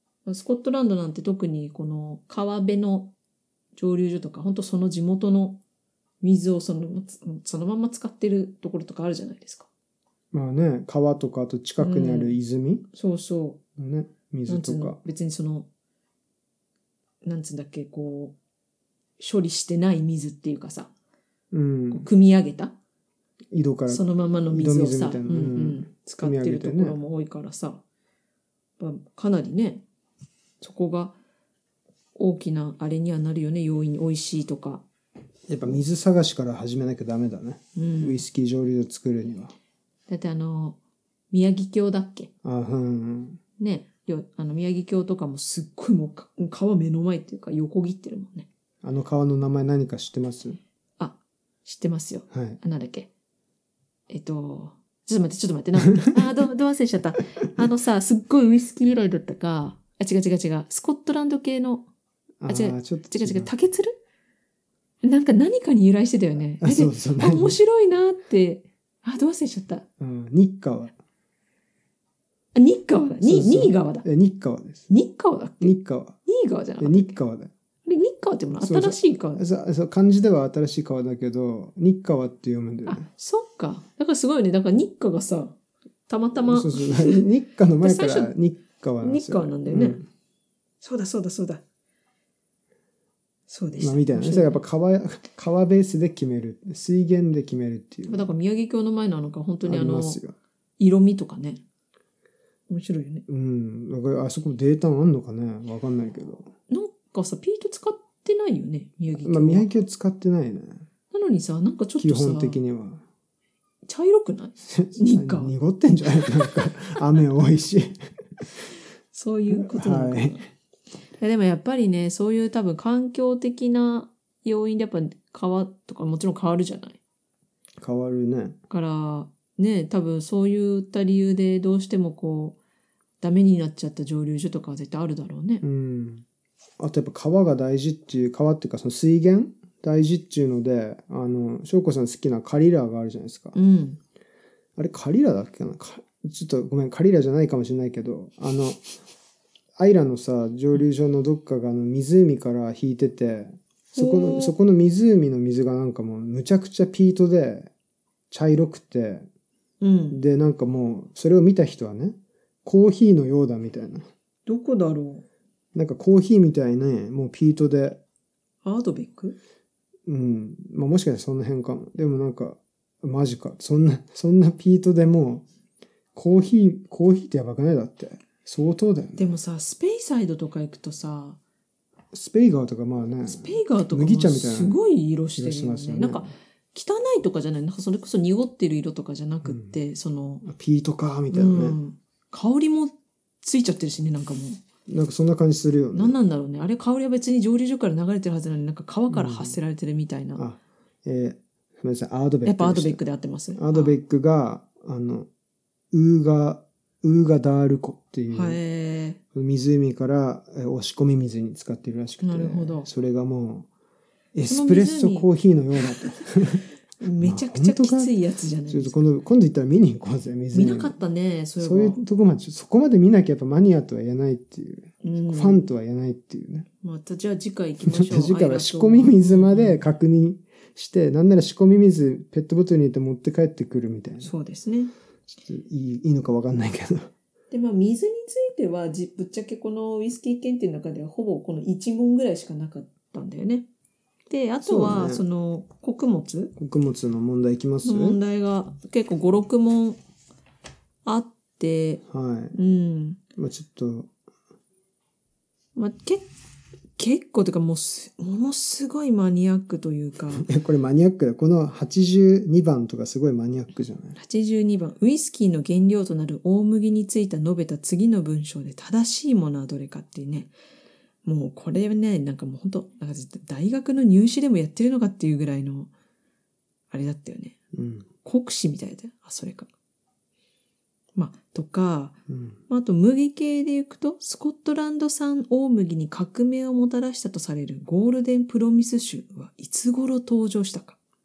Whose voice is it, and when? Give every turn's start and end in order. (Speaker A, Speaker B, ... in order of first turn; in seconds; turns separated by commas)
Speaker A: 0.2-3.1, Speaker A: 3.8-5.6, Speaker A: 6.2-9.7, Speaker B: 10.3-12.8, Speaker A: 11.8-12.4, Speaker A: 12.9-13.6, Speaker B: 13.8-15.0, Speaker A: 14.5-15.7, Speaker A: 17.2-18.4, Speaker A: 19.2-20.9, Speaker B: 21.5-22.1, Speaker A: 21.9-22.8, Speaker B: 23.5-27.0, Speaker A: 23.9-27.8, Speaker A: 28.8-29.8, Speaker A: 30.6-31.2, Speaker A: 32.1-34.8, Speaker B: 35.5-39.5, Speaker A: 37.8-38.2, Speaker A: 40.1-40.8, Speaker A: 41.3-42.3, Speaker B: 42.4-43.4, Speaker A: 43.6-48.5, Speaker B: 48.8-50.6, Speaker A: 51.0-53.1, Speaker B: 52.3-52.6, Speaker A: 54.1-61.9, Speaker B: 62.4-63.5, Speaker A: 62.5-63.9, Speaker A: 65.0-69.8, Speaker B: 66.6-67.6, Speaker B: 70.0-70.9, Speaker A: 72.5-74.0, Speaker B: 73.2-74.9, Speaker A: 74.9-77.1, Speaker B: 75.6-76.2, Speaker B: 76.8-77.5, Speaker A: 77.8-79.4, Speaker B: 78.5-83.1, Speaker A: 82.8-85.6, Speaker A: 86.1-87.2, Speaker B: 86.3-90.0, Speaker A: 87.8-88.3, Speaker A: 89.0-90.0, Speaker A: 90.8-91.6, Speaker A: 93.5-94.6, Speaker B: 93.8-98.3, Speaker A: 98.0-100.2, Speaker B: 99.6-100.3, Speaker A: 100.8-101.6, Speaker A: 102.7-103.2, Speaker B: 103.3-106.5, Speaker A: 106.7-109.7, Speaker B: 109.2-110.8, Speaker A: 111.1-112.6, Speaker B: 112.0-113.0, Speaker A: 113.8-115.5, Speaker B: 114.6-118.5, Speaker A: 119.1-120.4, Speaker B: 119.5-120.4, Speaker A: 121.2-127.0, Speaker B: 127.8-128.6, Speaker A: 128.7-132.6, Speaker A: 133.2-135.6, Speaker B: 135.6-136.2, Speaker B: 136.8-143.6, Speaker A: 143.5-144.0, Speaker B: 144.8-148.8, Speaker B: 149.8-157.7, Speaker A: 153.9-154.5, Speaker B: 158.3-159.3, Speaker A: 159.8-160.2, Speaker B: 160.1-164.1, Speaker A: 164.4-165.2, Speaker B: 165.7-168.0, Speaker A: 168.6-169.4, Speaker B: 170.1-175.4, Speaker B: 176.1-179.3, Speaker A: 179.2-181.4, Speaker B: 182.1-184.8, Speaker A: 183.2-190.4, Speaker B: 185.3-186.3, Speaker B: 189.4-189.7, Speaker B: 190.4-191.8, Speaker A: 191.3-194.6, Speaker B: 194.9-196.2, Speaker A: 195.9-200.4, Speaker B: 199.1-199.6, Speaker B: 200.3-203.0, Speaker A: 202.4-204.0, Speaker B: 203.6-205.3, Speaker B: 205.9-208.6, Speaker A: 208.3-209.2, Speaker B: 209.3-213.7, Speaker A: 212.2-212.9, Speaker B: 214.3-216.6, Speaker A: 214.4-215.3, Speaker A: 217.0-219.0, Speaker B: 217.2-218.1, Speaker B: 218.7-220.9, Speaker A: 220.5-222.0, Speaker B: 221.6-226.7, Speaker A: 225.0-225.7, Speaker A: 226.8-229.8, Speaker B: 227.8-234.3, Speaker A: 234.2-234.9, Speaker B: 235.4-237.1, Speaker A: 237.5-243.7, Speaker A: 244.3-246.5, Speaker B: 244.6-245.2, Speaker B: 246.6-248.2, Speaker A: 247.8-250.0, Speaker A: 251.0-252.0, Speaker B: 252.1-252.6, Speaker A: 252.5-253.2, Speaker B: 253.4-254.1, Speaker A: 255.7-256.3, Speaker A: 257.0-260.5, Speaker B: 260.3-264.2, Speaker A: 264.1-270.5, Speaker A: 271.2-275.9, Speaker A: 276.9-277.6, Speaker B: 277.7-278.1, Speaker A: 278.2-279.7, Speaker A: 281.1-282.2, Speaker B: 282.3-282.6, Speaker A: 282.7-291.0